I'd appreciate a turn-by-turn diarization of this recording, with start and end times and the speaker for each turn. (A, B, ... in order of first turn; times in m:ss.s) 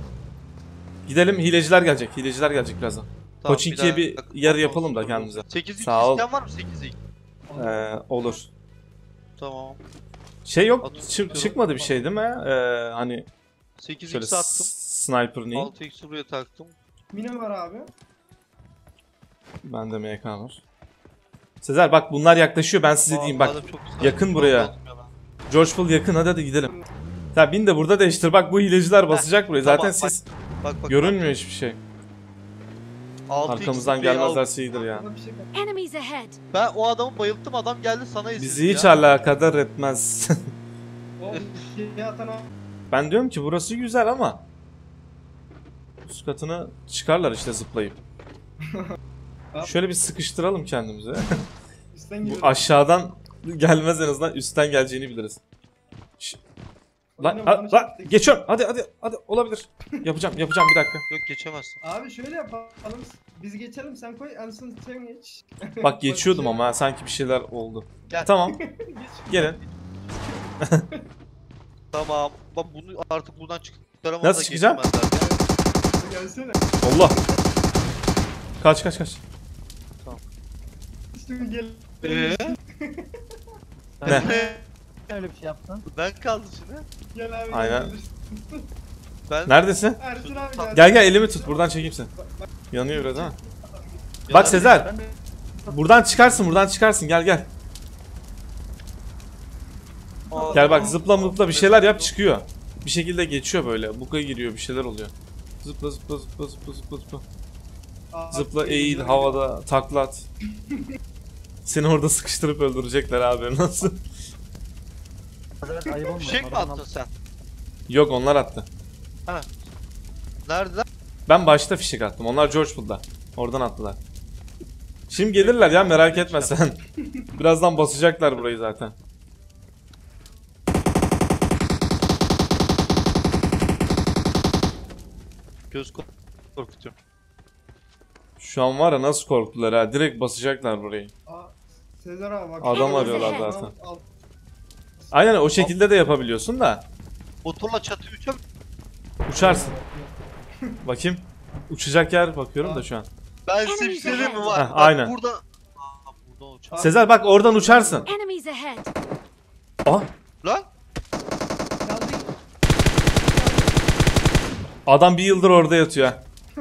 0:01.1-0:06.2 A
0:03.4-0:07.0 B
0:04.7-0:05.5 C
0:07.5-0:07.9 C
0:07.6-0:08.5 A
0:09.4-0:09.8 B
0:10.4-0:13.3 A
0:10.8-0:11.6 B
0:10.8-0:12.1 C
0:13.8-0:14.7 B
0:14.1-0:15.7 A
0:15.5-0:16.7 B
0:17.1-0:17.9 C
0:19.6-0:20.6 A
0:21.6-0:24.7 A
0:23.1-0:25.1 B
0:25.5-0:26.7 A
0:27.3-0:30.2 A
0:29.1-0:31.3 B
0:30.9-0:31.8 A
0:33.3-0:34.4 B
0:33.5-0:35.1 A
0:34.7-0:35.5 C
0:35.5-0:36.4 D
0:36.5-0:38.9 B
0:38.4-0:40.5 A
0:41.2-0:42.5 C
0:42.9-0:44.4 A
0:46.1-0:48.0 A
0:48.7-0:49.0 C
0:49.6-0:51.4 A
0:51.9-0:52.7 C
0:52.2-0:55.4 A
0:57.2-0:58.2 C
0:57.2-1:01.1 A
1:01.1-1:01.8 B
1:01.8-1:06.7 C
1:05.8-1:08.6 A
1:08.4-1:09.7 C
1:09.3-1:09.6 A
1:11.9-1:15.2 B
1:14.2-1:14.8 A
1:15.1-1:17.2 C
1:16.8-1:17.2 A
1:18.6-1:19.2 A
1:21.1-1:23.2 C
1:22.0-1:22.6 B
1:24.0-1:24.4 E
1:24.0-1:24.7 B
1:24.3-1:24.6 C
1:25.1-1:25.8 E
1:25.9-1:26.9 B
1:27.1-1:28.7 C
1:27.5-1:27.9 A
1:29.3-1:29.6 B
1:29.5-1:30.0 A
1:30.0-1:34.2 C
1:30.2-1:30.8 B
1:30.7-1:32.1 A
1:32.7-1:33.4 A
1:34.3-1:34.8 B
1:34.3-1:34.9 A
1:34.4-1:35.8 E
1:35.7-1:37.5 A
1:40.3-1:41.0 C
1:40.3-1:42.1 B
1:40.5-1:47.2 A
1:48.1-1:49.5 C
1:48.3-1:50.3 A
1:51.6-1:54.0 A
1:55.6-1:56.8 E
1:55.9-1:56.1 C
1:56.2-1:57.1 B
1:57.9-1:58.7 A
2:00.5-2:00.9 B
2:01.3-2:04.0 A
2:05.1-2:06.8 A
2:05.3-2:06.6 B
2:07.0-2:07.3 C
2:07.3-2:09.0 A
2:15.7-2:16.9 B
2:18.4-2:21.1 A
2:21.3-2:24.1 C
2:22.6-2:23.7 A
2:22.7-2:23.5 D
2:25.1-2:26.9 A
2:27.4-2:28.4 B
2:29.3-2:29.8 A
2:29.3-2:30.8 C
2:30.8-2:33.1 A
2:32.6-2:32.9 C
2:33.5-2:36.9 B
2:33.6-2:34.6 D
2:34.0-2:34.5 C
2:34.5-2:35.1 A
2:36.7-2:38.1 C
2:36.8-2:38.1 A
2:38.1-2:38.9 D
2:39.9-2:40.1 A
2:40.4-2:40.7 B
2:41.8-2:42.3 C
2:43.2-2:43.8 C
2:44.9-2:46.2 A